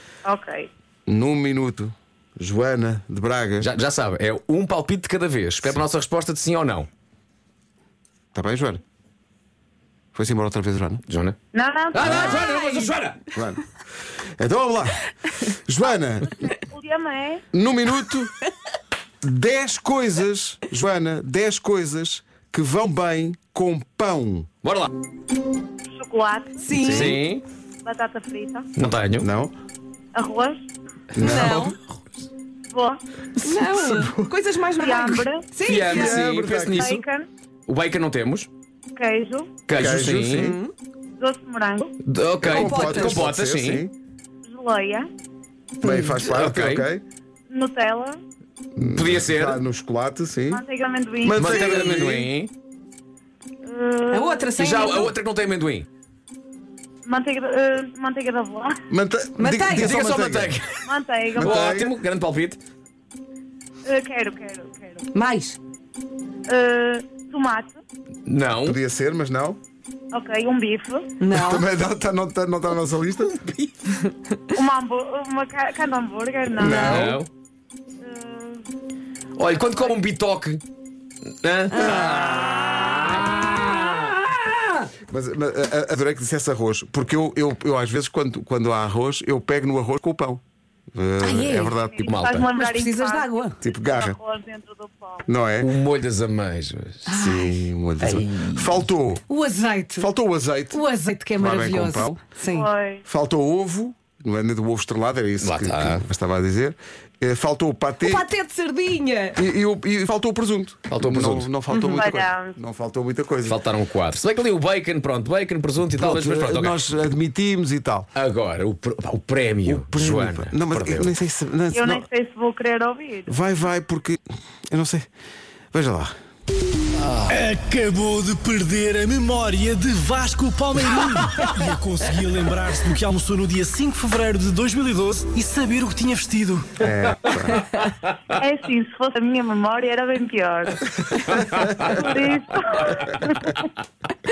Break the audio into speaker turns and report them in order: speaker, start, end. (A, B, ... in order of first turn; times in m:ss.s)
0:00.2-0:00.7 A
0:01.1-0:03.7 B
0:03.6-0:06.9 C
0:08.3-0:08.8 B
0:10.1-0:11.0 B
0:11.1-0:11.4 C
0:11.5-0:12.6 A
0:11.9-0:13.2 C
0:12.0-0:12.5 B
0:12.2-0:13.0 D
0:13.3-0:13.6 B
0:14.4-0:16.4 B
0:16.2-0:17.4 A
0:17.5-0:18.3 B
0:19.2-0:24.5 B
0:24.6-0:24.9 C
0:25.9-0:26.6 A
0:26.6-0:27.2 D
0:26.7-0:27.2 B
0:26.8-0:27.4 C
0:27.8-0:28.7 A
0:28.8-0:29.3 C
0:29.2-0:29.5 B
0:30.2-0:30.6 A
0:31.1-0:31.7 B
0:31.2-0:31.8 D
0:32.7-0:33.0 A
0:33.4-0:36.2 D
0:33.8-0:34.3 B
0:34.8-0:35.5 A
0:35.6-0:37.0 C
0:35.8-0:36.9 B
0:36.7-0:37.3 A
0:37.7-0:38.5 C
0:38.9-0:39.6 A
0:39.7-0:40.6 C
0:39.7-0:40.6 B
0:40.3-0:40.7 D
0:41.2-0:41.9 A
0:42.0-0:43.8 C
0:42.4-0:43.9 B
0:42.5-0:43.2 D
0:44.4-0:45.1 A
0:45.8-0:47.0 B
0:45.8-0:46.1 D
0:46.2-0:46.9 C
0:47.5-0:48.2 A
0:48.8-0:50.6 B
0:48.9-0:49.6 C
0:50.5-0:51.8 A
0:51.2-0:52.3 B
0:51.3-0:52.5 C
0:53.6-0:54.6 A
0:54.1-0:55.1 D
0:54.6-0:55.9 C
0:57.0-0:58.8 A
0:58.9-1:00.6 B
0:59.4-1:00.0 D
0:59.7-1:02.6 C
1:00.8-1:01.7 A
1:01.4-1:01.9 B
1:03.8-1:05.1 A
1:05.1-1:05.6 D
1:06.5-1:07.8 A
1:08.2-1:08.8 C
1:08.6-1:09.6 B
1:10.1-1:11.1 A
1:11.2-1:11.6 D
1:11.3-1:13.4 B
1:13.4-1:13.7 C
1:14.5-1:17.1 A
1:16.6-1:17.2 B
1:16.6-1:17.3 C
1:18.0-1:18.6 A
1:19.4-1:20.6 C
1:21.4-1:24.4 C
1:21.7-1:22.9 D
1:25.1-1:30.4 B
1:30.9-1:32.2 B
1:31.2-1:31.8 D
1:32.0-1:35.2 A
1:32.0-1:32.5 C
1:32.5-1:33.6 D
1:33.6-1:34.2 B
1:35.3-1:35.7 B
1:35.6-1:37.1 C
1:37.0-1:37.6 D
1:37.1-1:39.3 B
1:38.0-1:38.8 C
1:39.3-1:40.1 D
1:40.0-1:42.2 B
1:40.7-1:42.7 D
1:42.5-1:43.0 A
1:43.0-1:48.2 B
1:45.4-1:46.0 C
1:48.0-1:49.4 D
1:49.4-1:53.6 B
1:50.9-1:51.5 C
1:51.7-1:52.0 D
1:51.9-1:52.6 A
1:53.4-1:56.9 C
1:55.9-1:58.1 B
1:58.1-2:01.1 C
1:59.6-2:02.0 B
2:01.7-2:03.4 A
2:03.3-2:05.1 B
2:05.7-2:06.1 B
2:07.0-2:07.3 C
2:07.3-2:16.8 E
2:16.8-2:17.7 B
2:17.2-2:17.9 C
2:18.3-2:23.6 A
2:21.0-2:22.1 C